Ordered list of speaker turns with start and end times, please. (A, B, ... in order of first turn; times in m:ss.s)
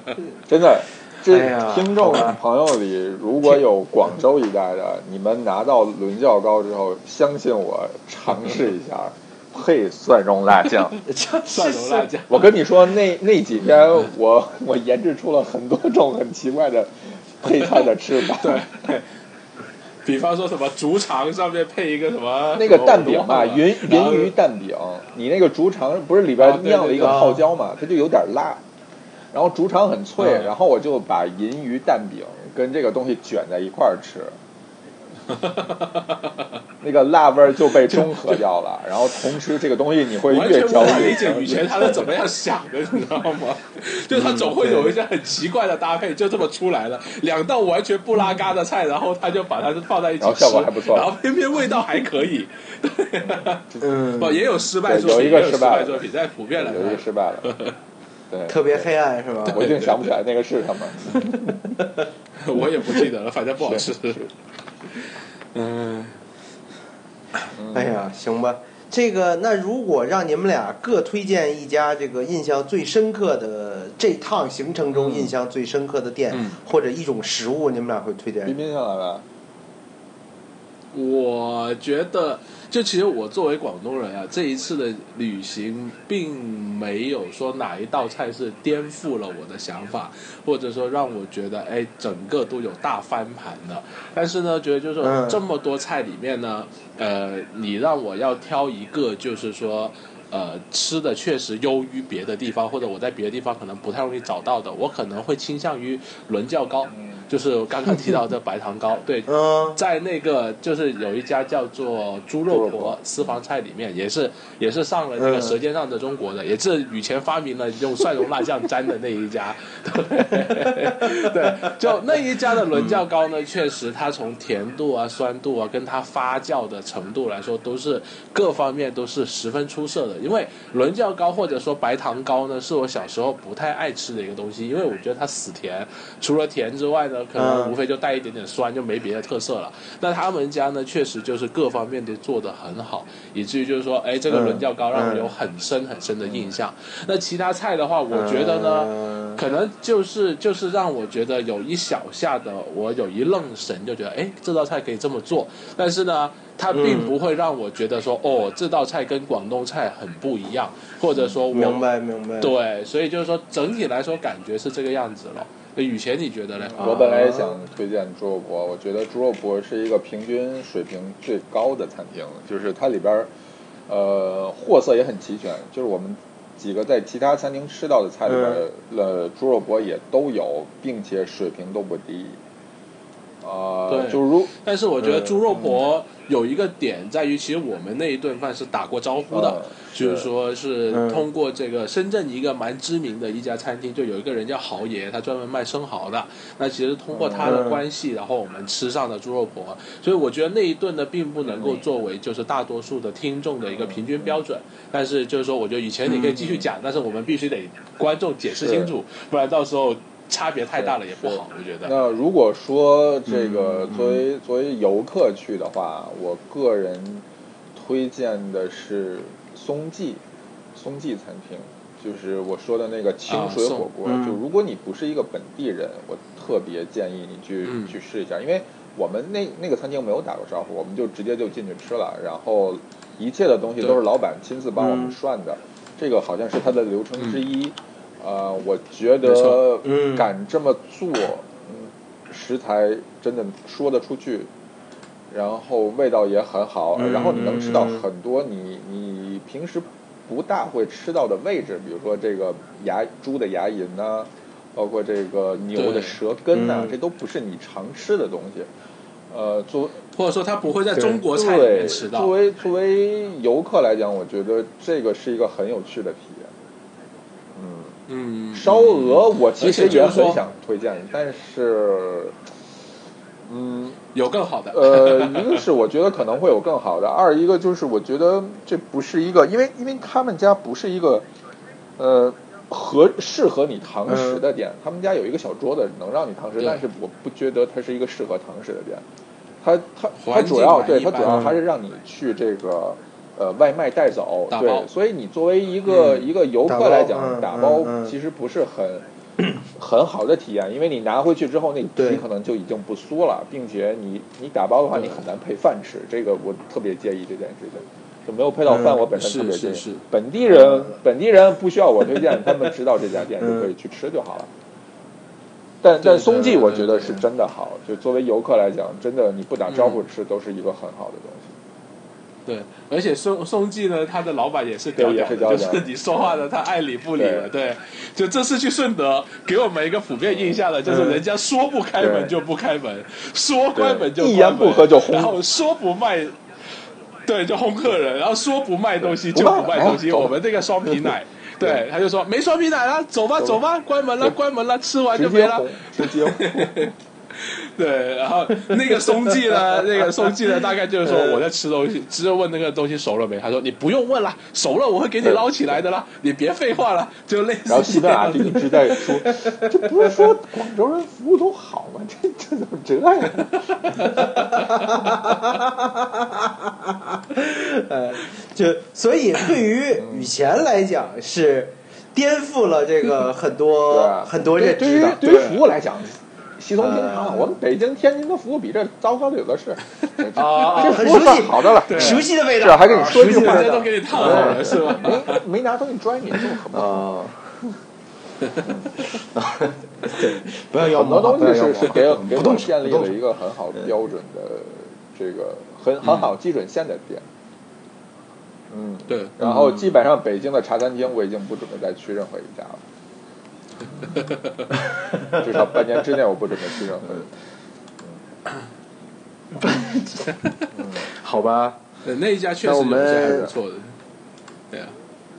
0:00.5-0:11.0 A
0:01.3-0:02.4 B
0:11.1-0:12.1 B
0:11.4-0:12.6 C
0:12.3-0:18.7 A
0:18.2-0:19.1 C
0:20.1-0:24.3 C
0:22.5-0:28.6 A
0:26.4-0:27.3 C
0:27.0-0:27.4 B
0:29.3-0:34.4 A
0:30.2-0:30.5 C
0:35.3-0:36.0 C
0:36.8-0:42.1 A
0:37.7-0:38.4 C
0:40.3-0:53.7 C
0:44.1-0:44.6 A
0:44.6-0:44.9 B
0:50.2-0:51.2 A
0:53.2-0:53.8 A
0:53.8-0:54.5 B
0:54.2-0:57.8 C
0:54.8-0:57.5 A
0:58.3-0:58.9 A
0:58.5-0:59.7 B
0:59.5-1:00.1 C
0:59.5-1:01.7 A
1:01.2-1:02.1 B
1:02.4-1:04.2 C
1:03.6-1:04.3 A
1:05.5-1:06.2 C
1:07.5-1:08.0 A
1:07.7-1:18.6 B
1:14.9-1:15.3 A
1:18.4-1:19.2 A
1:20.9-2:41.8 C
1:35.0-1:35.4 B
1:46.9-1:47.3 A
1:49.3-1:49.8 B
1:52.5-1:53.4 A
1:55.2-1:55.6 B
2:00.4-2:01.8 B
2:02.7-2:03.0 A
2:17.4-2:17.8 B
2:24.3-2:25.3 B
2:26.2-2:26.6 A
2:28.1-2:29.4 B
2:36.7-2:37.2 B
2:41.1-2:41.4 A
2:41.5-2:42.5 B
2:42.4-2:47.0 C
2:46.7-2:53.3 A
2:46.8-2:47.6 B
2:53.9-3:02.4 A
2:58.3-2:58.6 B
3:03.4-3:05.8 A
3:03.9-3:31.9 C
3:09.3-3:10.3 A
3:10.9-3:11.3 B
3:17.1-3:17.7 A
3:17.4-3:17.8 B
3:21.6-3:21.8 A
3:23.7-3:24.4 A
3:26.1-3:26.4 B
3:26.4-3:26.7 A
3:28.6-3:28.9 A
3:30.8-3:40.2 A
3:33.3-3:34.2 B
3:40.8-4:04.5 A
3:43.3-3:43.9 C
3:44.0-3:44.4 B
3:47.7-3:47.9 C
3:54.8-3:55.2 B
3:59.2-3:59.6 C
3:59.8-4:00.3 B
4:05.3-4:18.7 A
4:07.0-4:08.0 B
4:15.8-4:16.2 C
4:16.5-4:17.0 B
4:19.3-4:20.0 A
4:20.2-4:22.3 C
4:21.0-4:21.2 B
4:21.3-4:26.5 A
4:27.6-4:28.0 A
4:28.1-4:30.4 C
4:28.5-4:32.4 A
4:33.4-4:34.0 A
4:34.1-4:35.6 C
4:34.7-4:41.2 A
4:42.0-4:49.0 A
4:44.1-4:44.4 B
4:49.6-4:59.0 A
4:50.2-4:51.6 C
4:51.3-4:51.6 B
4:54.5-4:54.9 C
4:55.9-4:56.3 C
4:56.7-4:58.1 B
4:59.8-5:14.5 A
5:02.0-5:02.2 B
5:04.9-5:05.2 C
5:08.7-5:09.0 B
5:09.0-5:10.0 C
5:10.6-5:11.0 B
5:15.8-5:21.6 A
5:16.0-5:17.2 C
5:19.7-5:20.0 C
5:22.5-5:36.4 C
5:25.0-5:26.4 A
5:27.2-5:27.5 A
5:30.3-5:31.2 A
5:32.0-5:32.4 A
5:33.7-5:35.4 A
5:37.3-5:59.2 C
5:39.0-5:41.8 A
5:45.1-5:46.9 A
5:48.6-5:50.5 B
5:51.1-5:51.4 B
5:55.2-5:55.8 A
5:57.7-6:04.1 A
5:59.3-6:00.2 B
6:03.4-6:04.7 C
6:04.0-6:15.6 B
6:10.0-6:10.3 A
6:13.9-6:27.1 A
6:16.8-6:17.6 B
6:20.3-6:25.1 B
6:21.9-6:22.3 C
6:23.2-6:25.4 C
6:26.4-6:27.3 B
6:28.6-6:29.0 A
6:29.3-6:33.2 B
6:30.8-6:37.3 A
6:36.0-6:36.3 C
6:38.7-6:42.8 A
6:39.1-6:39.7 C
6:44.1-6:44.7 C
6:45.1-6:45.4 B
6:45.3-6:47.3 A
6:49.6-6:51.8 B
6:50.7-6:51.1 A
6:52.0-6:54.0 C
6:52.6-6:53.5 B